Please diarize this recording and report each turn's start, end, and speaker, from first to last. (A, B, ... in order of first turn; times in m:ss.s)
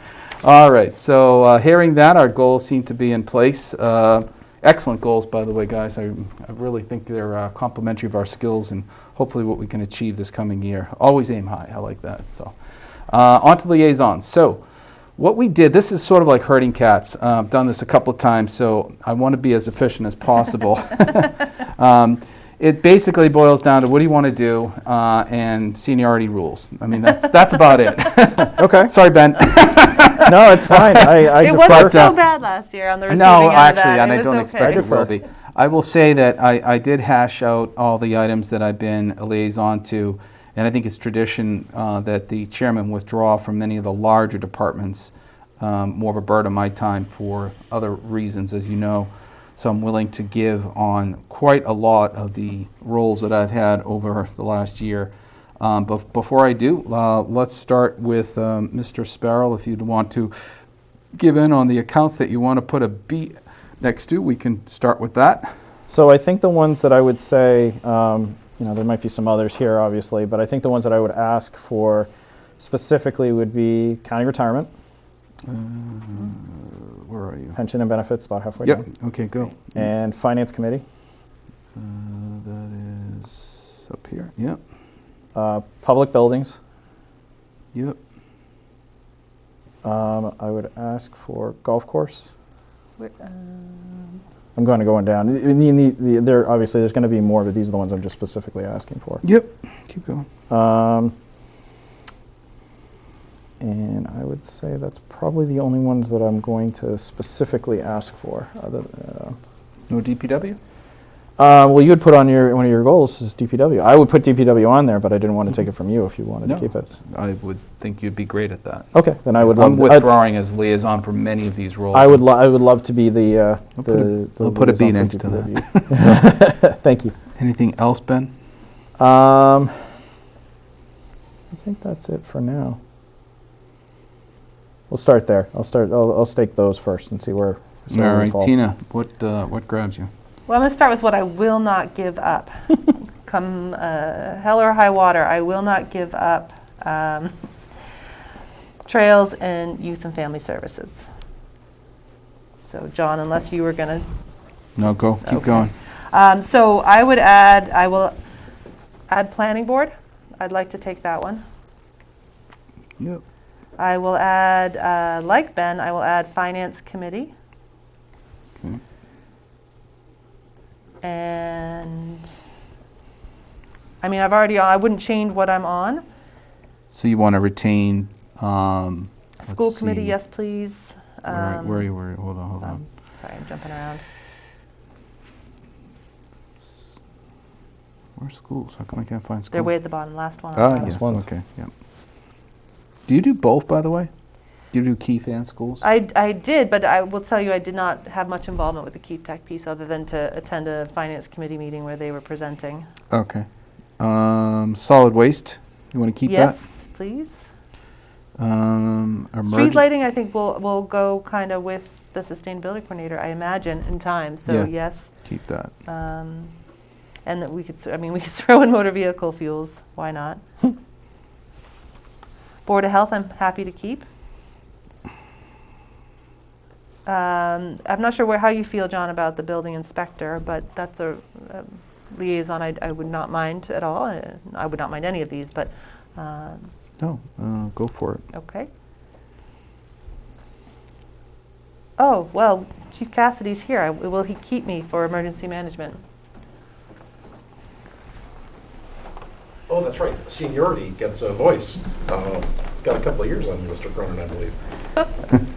0:00.4-0:12.6 A
0:13.1-0:14.6 A
0:15.2-0:32.2 A
0:28.6-0:28.9 B
0:30.2-0:32.2 B
0:31.4-0:34.9 C
0:33.1-1:00.3 A
0:34.6-0:35.1 B
1:01.2-1:05.5 A
1:05.9-1:14.7 B
1:15.5-1:17.6 A
1:17.6-1:18.9 B
1:18.6-1:19.8 A
1:19.7-1:20.8 B
1:21.8-1:24.6 A
1:25.4-1:26.6 B
1:29.8-1:32.3 B
1:33.0-1:34.2 C
1:34.6-1:39.2 B
1:39.2-1:40.3 A
1:40.5-1:41.1 B
1:43.6-1:49.4 B
1:49.9-1:50.6 A
1:51.4-1:56.9 B
1:56.4-1:58.9 A
1:58.9-2:00.1 B
1:59.4-2:02.2 A
2:01.9-2:07.1 B
2:03.8-2:06.1 A
2:07.4-2:08.3 A
2:09.0-2:09.9 B
2:11.5-2:12.8 B
2:14.9-2:18.5 B
2:17.9-2:20.1 A
2:20.5-2:27.3 C
2:28.9-2:31.0 C
2:32.6-2:34.1 C
2:34.8-2:35.7 A
2:35.2-2:38.1 C
2:39.1-2:41.4 C
2:43.8-2:47.3 C
2:51.0-2:52.3 C
2:54.0-2:56.0 C
2:56.9-3:00.2 A
2:59.4-3:01.9 C
3:01.3-3:02.8 A
3:02.7-3:04.0 C
3:08.2-3:09.7 A
3:09.5-3:11.0 C
3:10.6-3:11.7 A
3:10.8-3:11.3 B
3:13.1-3:14.1 A
3:14.7-3:15.8 A
3:15.8-3:22.9 C
3:23.1-3:23.5 A
3:24.0-3:26.6 A
3:26.3-3:27.4 C
3:28.4-3:29.8 A
3:29.4-3:35.2 C
3:34.5-3:35.7 A
3:35.9-3:36.5 C
3:37.2-3:40.4 C
3:42.7-3:44.1 C
3:47.1-3:56.7 C
3:57.0-3:58.2 A
3:58.3-3:58.7 C
4:02.0-4:06.0 C
4:09.7-4:14.6 D